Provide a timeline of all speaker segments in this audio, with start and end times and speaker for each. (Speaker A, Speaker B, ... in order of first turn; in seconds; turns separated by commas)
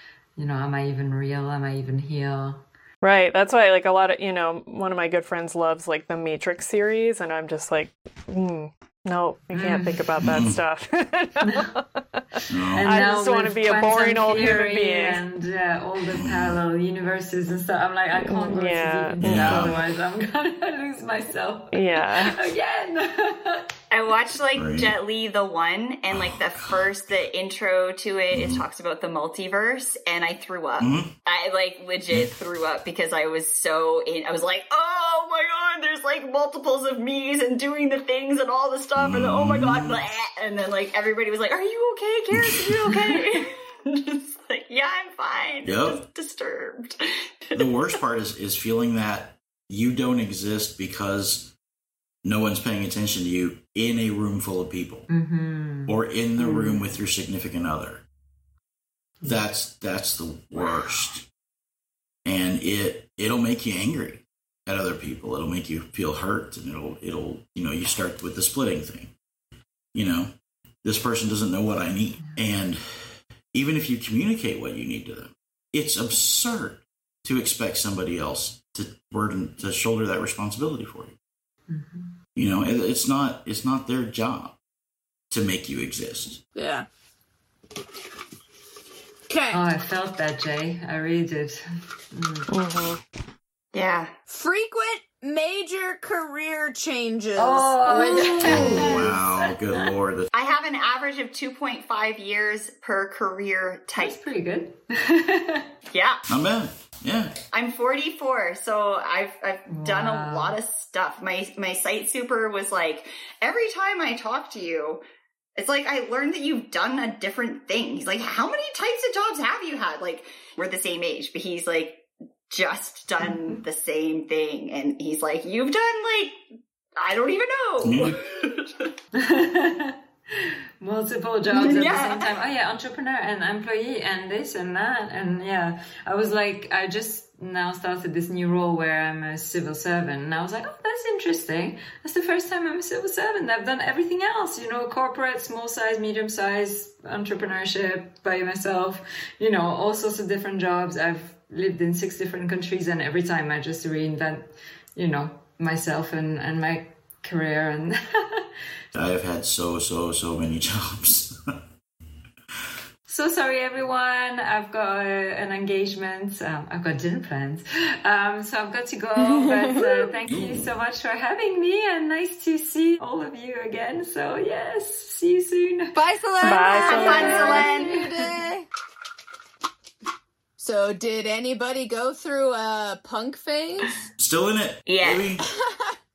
Speaker A: 0.4-2.7, Speaker B: 3.0-11.8, Speaker A: 9.6-10.3, Speaker C: 10.2-10.6, Speaker C: 12.5-13.0, Speaker A: 12.7-23.7, Speaker B: 12.8-15.2, Speaker C: 16.1-16.6, Speaker B: 18.2-19.6, Speaker C: 19.2-19.8, Speaker B: 21.7-22.4, Speaker D: 23.9-47.7, Speaker C: 24.6-24.9, Speaker C: 26.1-26.9, Speaker C: 28.3-28.6, Speaker C: 30.8-31.1, Speaker C: 39.0-40.0, Speaker C: 42.3-42.6, Speaker C: 45.6-46.0, Speaker C: 47.5-51.5, Speaker C: 52.2-55.1, Speaker A: 55.1-57.0, Speaker C: 55.9-58.0, Speaker A: 59.2-59.5, Speaker C: 59.2-61.3, Speaker C: 62.2-69.1, Speaker C: 69.9-70.3, Speaker C: 70.8-81.2, Speaker A: 81.7-82.2, Speaker C: 82.4-84.6, Speaker C: 85.3-86.4, Speaker E: 86.5-86.9, Speaker E: 89.3-89.6, Speaker A: 89.5-92.5, Speaker B: 92.5-93.0, Speaker D: 93.7-94.1, Speaker E: 94.3-99.1, Speaker A: 97.4-99.8, Speaker D: 97.9-98.9, Speaker C: 98.5-100.3, Speaker D: 100.3-104.2, Speaker A: 104.0-105.7, Speaker D: 105.9-106.2, Speaker C: 106.3-107.4, Speaker D: 107.5-115.0, Speaker A: 109.7-110.6, Speaker D: 115.6-126.4, Speaker D: 127.0-128.9, Speaker C: 127.8-128.2, Speaker A: 129.2-158.5, Speaker D: 131.5-132.3, Speaker C: 158.9-161.4, Speaker A: 163.1-178.4, Speaker E: 169.3-170.0, Speaker C: 170.3-170.7, Speaker E: 175.9-178.7, Speaker B: 176.4-177.7, Speaker D: 176.8-178.1, Speaker E: 180.6-184.0, Speaker C: 184.2-185.4, Speaker D: 184.9-185.4, Speaker E: 185.5-186.0